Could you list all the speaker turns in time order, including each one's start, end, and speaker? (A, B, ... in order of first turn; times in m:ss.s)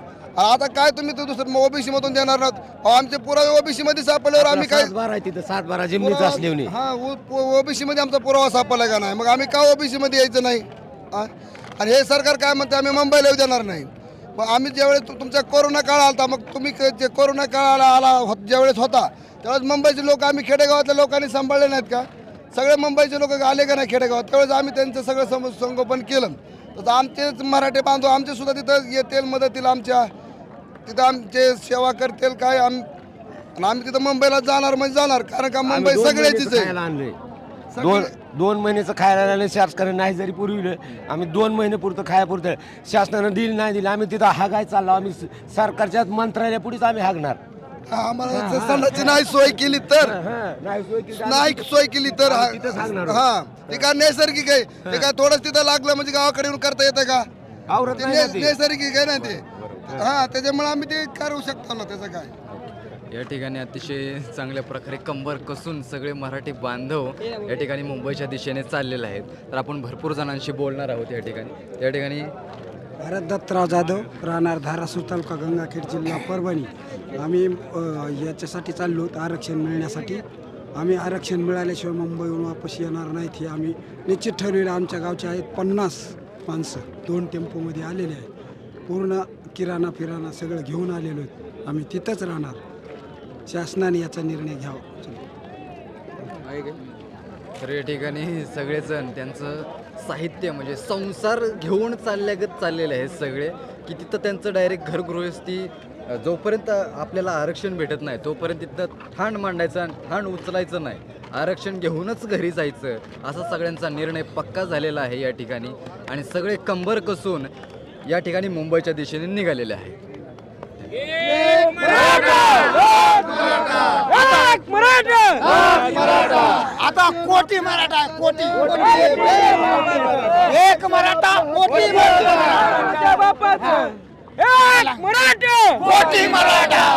0:00.4-0:04.9 A
0:04.4-0:06.7 B
0:06.0-0:30.1 A
0:30.8-0:32.8 A
0:33.6-0:36.7 A
0:35.6-0:37.2 B
0:37.7-0:38.1 A
0:37.8-0:47.4 B
0:47.9-0:50.2 A
0:48.3-0:49.3 B
0:50.0-0:53.8 B
0:51.2-0:57.3 A
0:57.7-0:58.6 B
0:57.9-1:02.3 A
1:02.5-1:12.3 C
1:13.0-1:16.7 D
1:17.2-1:20.2 D
1:20.8-1:28.3 D
1:28.9-1:32.6 D
1:33.5-1:35.2 D
1:37.6-1:57.5 C
1:58.0-2:00.0 C
2:02.9-2:03.3 E
2:04.1-2:05.6 E
2:06.1-2:06.6 A
2:08.2-2:09.0 A
2:08.6-2:10.0 E
2:12.7-2:16.2 E